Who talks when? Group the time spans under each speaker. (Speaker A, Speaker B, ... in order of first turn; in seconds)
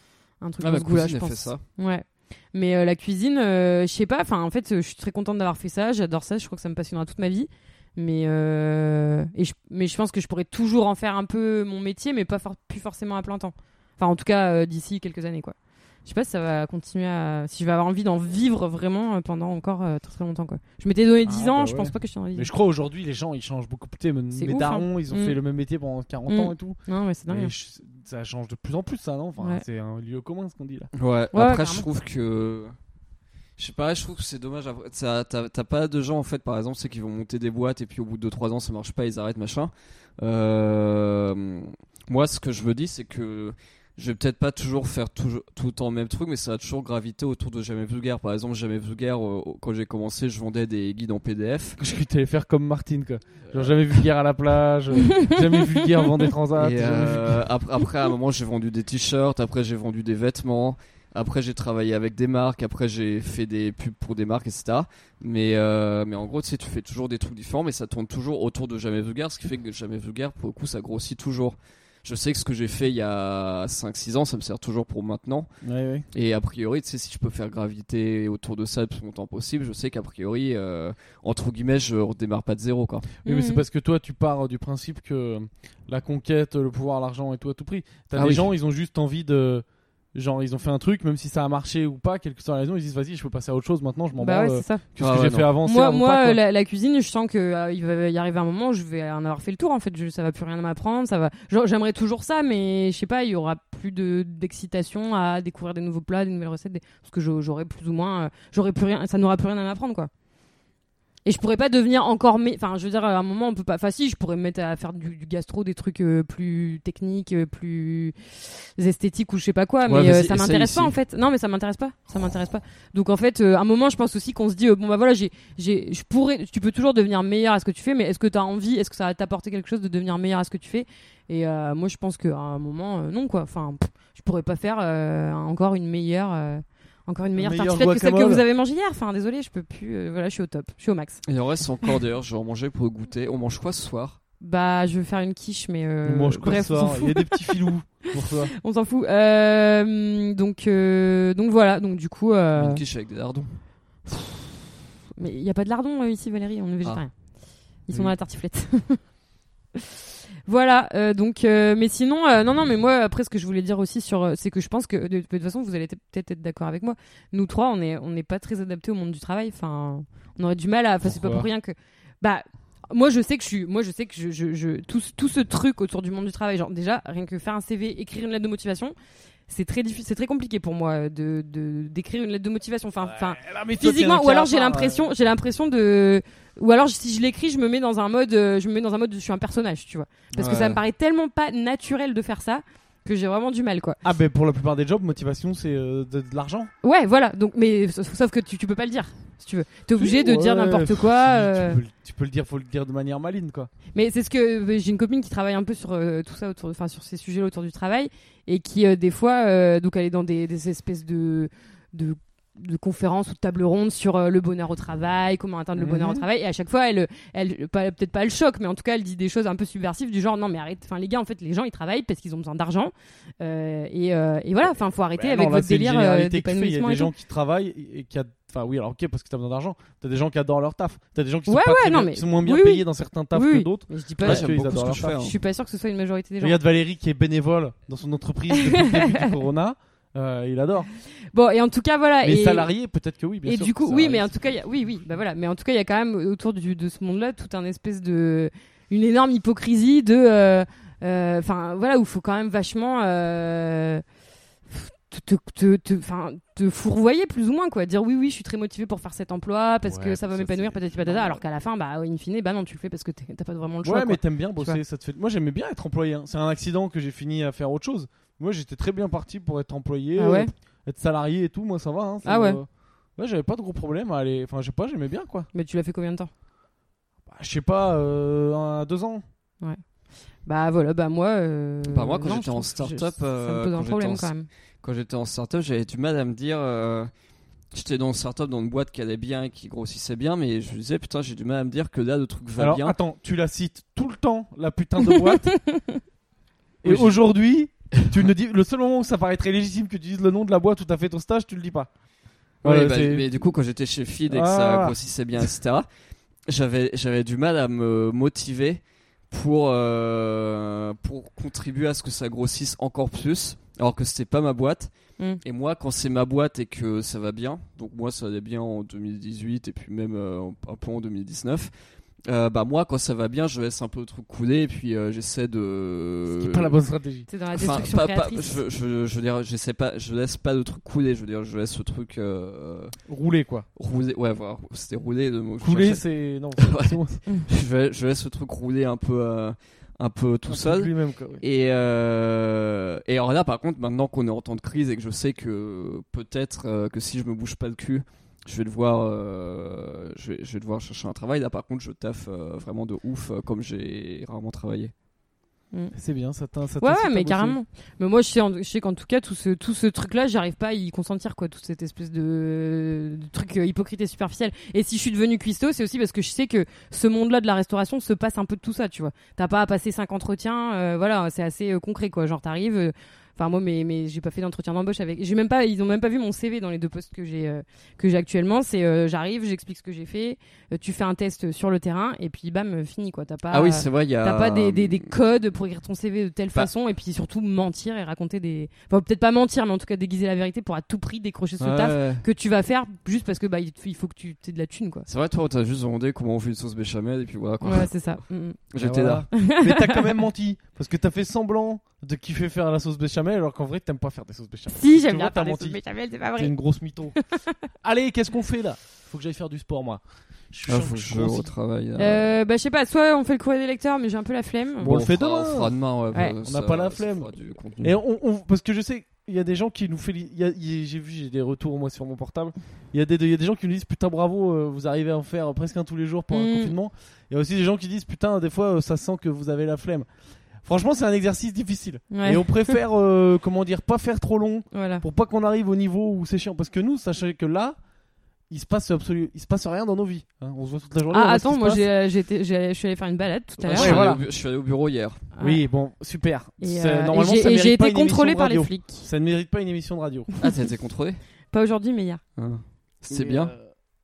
Speaker A: 0.4-22.5, 24.3-25.4, 26.3-27.5, 29.4-29.6, 31.3-31.9, 55.2-55.6, 83.2-83.6, 94.2-94.8, 95.6-110.1, 111.2-141.2, 144.4-152.8, 154.1-154.5, 155.2-157.2, 157.8-159.0, 160.5-178.9, 179.5-194.0, 196.8-201.8, 203.9-227.1, 231.5-236.6, 238.5-239.3, 241.3-242.7, 243.4-254.0, 254.7-264.8, 270.2-270.5, 272.2-272.6, 275.5-276.3, 280.4-284.5, 295.4-296.0, 327.3-328.6, 356.8-395.1, 397.6-398.6, 399.3-400.1, 404.7-406.5, 407.1-407.7, 412.0-415.0, 426.3-426.7, 432.1-432.8, 434.7-435.1, 441.1-444.1, 445.4-445.6, 446.6-449.1, 451.5-452.2
Speaker B: 0.6-1.6, 30.9-32.7, 33.6-51.8, 56.6-75.5, 76.1-83.1, 88.2-88.5, 95.0-95.5, 119.9-121.0, 141.3-144.2, 152.6-153.6, 190.3-190.8, 234.2-235.4, 281.9-287.1, 287.7-292.9, 296.8-297.2, 302.6-305.9, 306.5-314.9, 315.4-321.7, 322.3-326.8, 327.5-333.0, 333.8-336.0, 336.6-354.9, 383.5-385.1, 391.6-392.2, 395.1-397.9, 398.7-399.3, 410.7-412.4, 414.8-417.9, 443.6-445.2, 450.4-451.2, 452.4-453.5
Speaker C: 21.3-30.9, 51.8-57.5, 75.6-76.1, 83.2-96.4, 137.4-138.4, 146.1-148.5, 171.1-171.5, 183.1-185.1, 194.0-196.7, 200.0-203.7, 215.8-216.2, 225.2-235.0, 236.4-240.9, 242.2-244.3, 259.9-260.7, 263.8-275.5, 277.3-279.2, 292.6-295.5, 296.8-301.9, 302.6-303.5, 304.3-305.0, 326.3-327.3, 333.1-333.7, 335.6-337.2, 340.5-341.4, 355.9-357.6, 398.8-405.8, 406.3-407.2, 407.8-411.5, 414.8-415.8, 416.4-430.1, 430.6-437.8, 438.5-441.8, 443.7-444.2, 445.4-450.3, 453.1-453.7